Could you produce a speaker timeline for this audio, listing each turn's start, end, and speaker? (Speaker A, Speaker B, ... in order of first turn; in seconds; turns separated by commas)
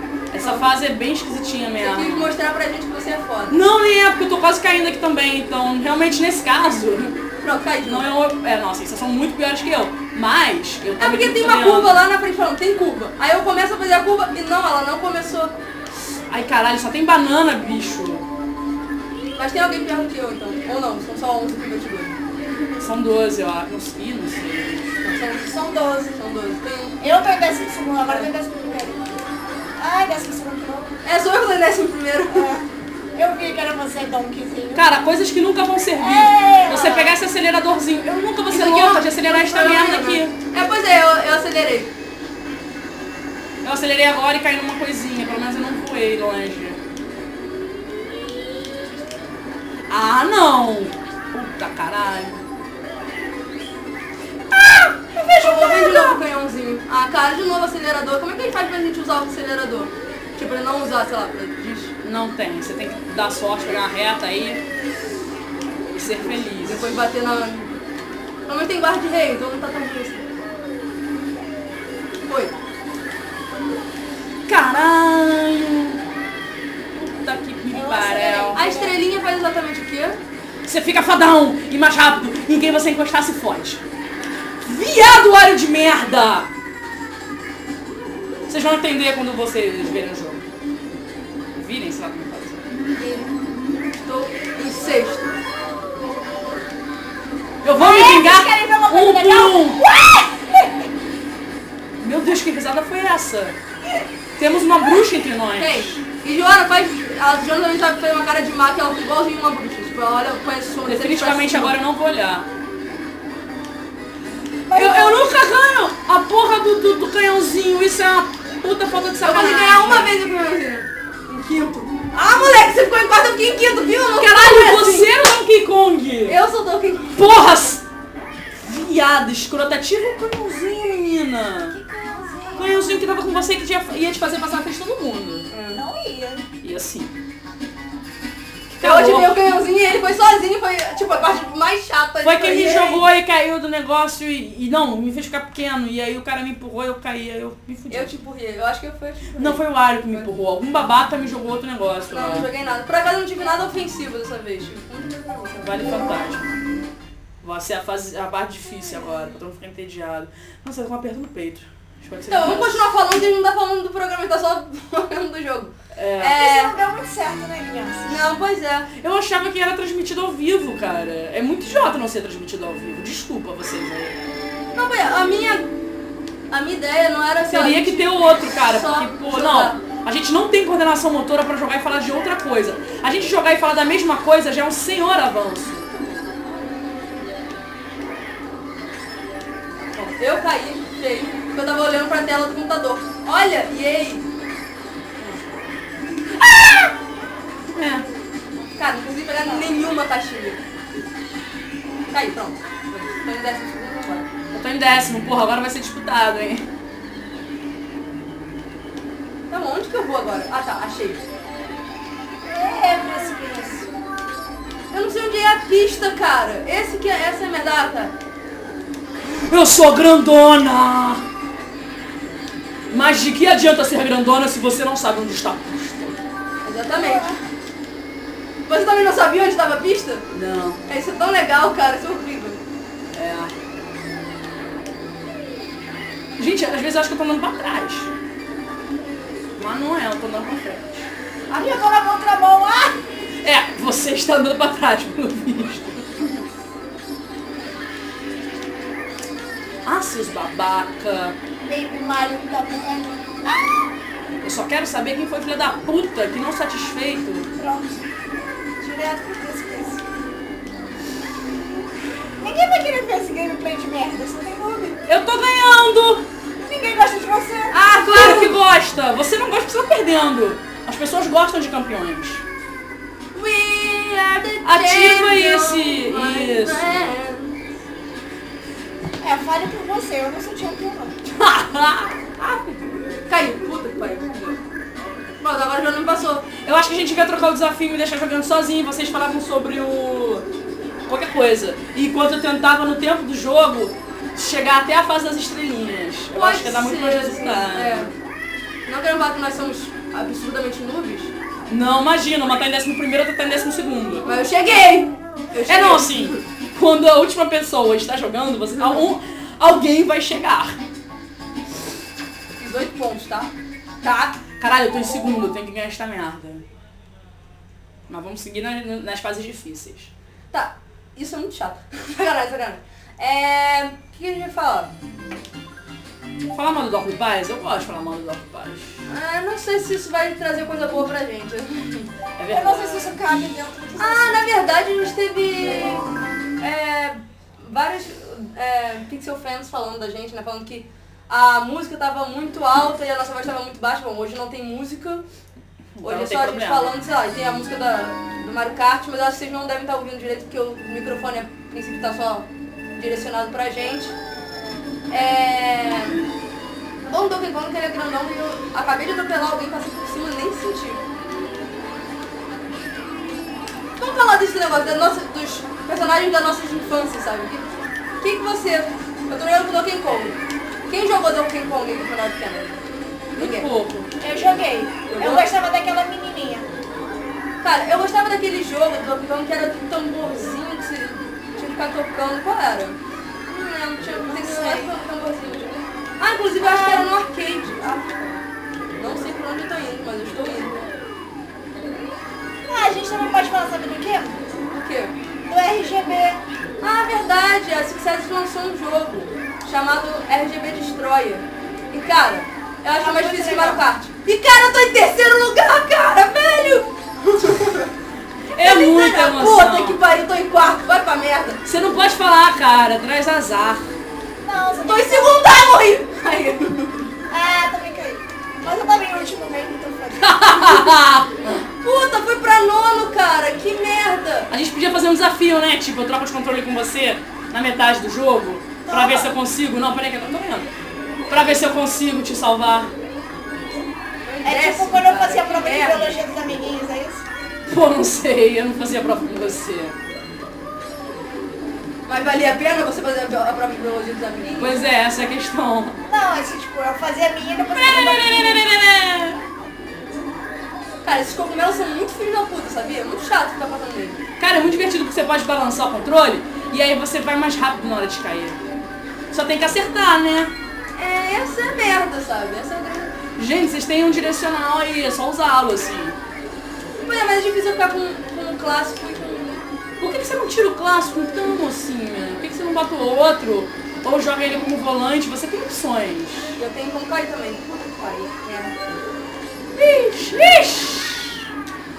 Speaker A: 0.3-2.3, Speaker B: 0.4-0.6, Speaker B: 1.8-3.6, Speaker A: 3.5-7.2, Speaker B: 7.4-8.1, Speaker A: 7.8-12.0, Speaker B: 11.0-15.5, Speaker A: 16.3-18.2, Speaker B: 19.4-22.2, Speaker A: 22.8-24.9, Speaker B: 25.0-26.9, Speaker C: 27.0-29.0, Speaker C: 29.8-30.9, Speaker B: 31.0-32.5, Speaker C: 32.3-32.6, Speaker C: 33.1-34.8, Speaker A: 34.7-40.3, Speaker C: 36.0-37.1, Speaker B: 38.5-41.9, Speaker A: 43.6-46.8, Speaker A: 49.9-52.4, Speaker A: 54.5-56.2, Speaker B: 55.4-61.9, Speaker A: 62.0-64.6, Speaker A: 65.9-66.9, Speaker B: 66.6-67.7, Speaker B: 68.5-70.3, Speaker B: 72.3-72.5, Speaker A: 74.5-76.0, Speaker A: 76.9-78.6, Speaker C: 77.7-79.0, Speaker B: 78.5-80.2, Speaker A: 80.7-83.8, Speaker A: 84.6-86.5, Speaker A: 88.5-90.4, Speaker A: 91.5-92.6, Speaker C: 93.0-93.3, Speaker B: 94.0-95.3, Speaker A: 97.6-99.8, Speaker C: 97.8-100.9, Speaker A: 102.0-103.5, Speaker A: 104.4-106.0, Speaker B: 105.6-111.8, Speaker A: 110.8-112.5, Speaker C: 114.7-115.3, Speaker A: 114.7-120.1, Speaker B: 119.2-125.1, Speaker A: 124.2-126.4, Speaker B: 126.2-127.2, Speaker A: 127.1-127.8, Speaker A: 128.6-131.8, Speaker C: 131.7-132.8, Speaker A: 132.6-135.5, Speaker B: 135.5-135.8, Speaker C: 135.7-136.5, Speaker A: 136.6-137.1, Speaker A: 138.7-139.4, Speaker B: 138.8-143.0, Speaker A: 142.2-148.1, Speaker B: 147.9-150.3, Speaker A: 149.3-152.5, Speaker B: 152.1-155.8, Speaker A: 155.6-156.6, Speaker A: 157.4-162.8, Speaker B: 162.3-166.8, Speaker A: 165.9-166.4, Speaker C: 166.3-168.2, Speaker B: 168.1-168.9, Speaker A: 169.0-174.2, Speaker B: 174.7-175.7, Speaker B: 176.5-179.8, Speaker A: 177.5-185.9, Speaker B: 189.9-194.2, Speaker A: 196.4-196.9, Speaker A: 197.7-198.0, Speaker B: 198.8-200.6, Speaker B: 202.1-204.3, Speaker A: 204.5-206.7, Speaker B: 209.5-211.2, Speaker C: 212.4-213.9, Speaker B: 214.9-218.1, Speaker A: 219.4-221.2, Speaker A: 222.9-226.2, Speaker B: 226.6-227.3, Speaker C: 226.9-227.4, Speaker B: 228.7-230.2, Speaker A: 230.3-230.8, Speaker B: 230.9-232.6, Speaker A: 233.1-233.5, Speaker A: 236.4-238.1, Speaker A: 239.6-241.1, Speaker C: 241.5-243.0, Speaker A: 243.4-246.3, Speaker A: 249.8-251.3, Speaker C: 251.7-253.8, Speaker A: 254.4-257.5, Speaker C: 257.6-258.0, Speaker C: 258.8-260.1, Speaker C: 262.4-265.0, Speaker A: 265.1-266.2, Speaker C: 266.6-267.8, Speaker B: 267.7-268.5, Speaker A: 268.1-272.4, Speaker B: 273.3-277.6, Speaker A: 274.6-276.9, Speaker C: 279.2-281.1, Speaker A: 281.2-283.0, Speaker B: 283.3-284.6, Speaker B: 285.4-286.5, Speaker A: 286.6-290.4, Speaker A: 291.1-298.1, Speaker B: 296.3-298.1, Speaker B: 298.9-301.3, Speaker A: 301.7-304.3, Speaker B: 304.2-306.4, Speaker A: 305.7-310.8, Speaker B: 312.6-313.5, Speaker B: 314.0-314.4, Speaker A: 314.4-316.6, Speaker A: 318.1-320.1, Speaker B: 320.5-324.9, Speaker A: 326.5-329.0, Speaker B: 329.1-332.1, Speaker A: 332.4-333.1, Speaker C: 332.5-334.7, Speaker B: 334.0-336.1, Speaker B: 336.6-345.2, Speaker A: 346.0-346.9, Speaker B: 346.0-354.1, Speaker B: 355.1-356.2, Speaker B: 357.1-361.0, Speaker B: 364.0-372.8, Speaker B: 373.4-373.7, Speaker A: 373.4-374.1, Speaker C: 374.2-376.7, Speaker B: 375.1-375.5, Speaker B: 377.6-388.4, Speaker C: 384.2-384.9, Speaker C: 386.6-387.1, Speaker B: 389.0-390.8, Speaker C: 392.6-394.4, Speaker B: 394.7-395.1, Speaker C: 395.5-396.4, Speaker B: 396.8-407.9, Speaker C: 402.9-403.8, Speaker A: 408.5-410.0, Speaker B: 408.6-411.6, Speaker A: 411.6-413.9, Speaker C: 414.4-415.4, Speaker B: 414.8-417.1, Speaker C: 417.3-420.5, Speaker A: 420.2-421.6, Speaker B: 421.8-424.5, Speaker A: 424.5-430.7, Speaker C: 428.9-429.3, Speaker A: 431.3-432.9, Speaker B: 434.2-436.2, Speaker C: 434.4-437.2, Speaker A: 437.7-439.9, Speaker B: 442.1-444.8, Speaker A: 444.6-446.0, Speaker C: 446.1-448.6, Speaker A: 447.7-449.4, Speaker B: 451.0-454.2, Speaker A: 454.4-458.6, Speaker A: 459.3-460.5, Speaker B: 460.9-463.2, Speaker A: 463.4-466.2, Speaker B: 467.0-469.6, Speaker A: 470.0-476.6, Speaker B: 476.6-478.7, Speaker A: 479.7-481.4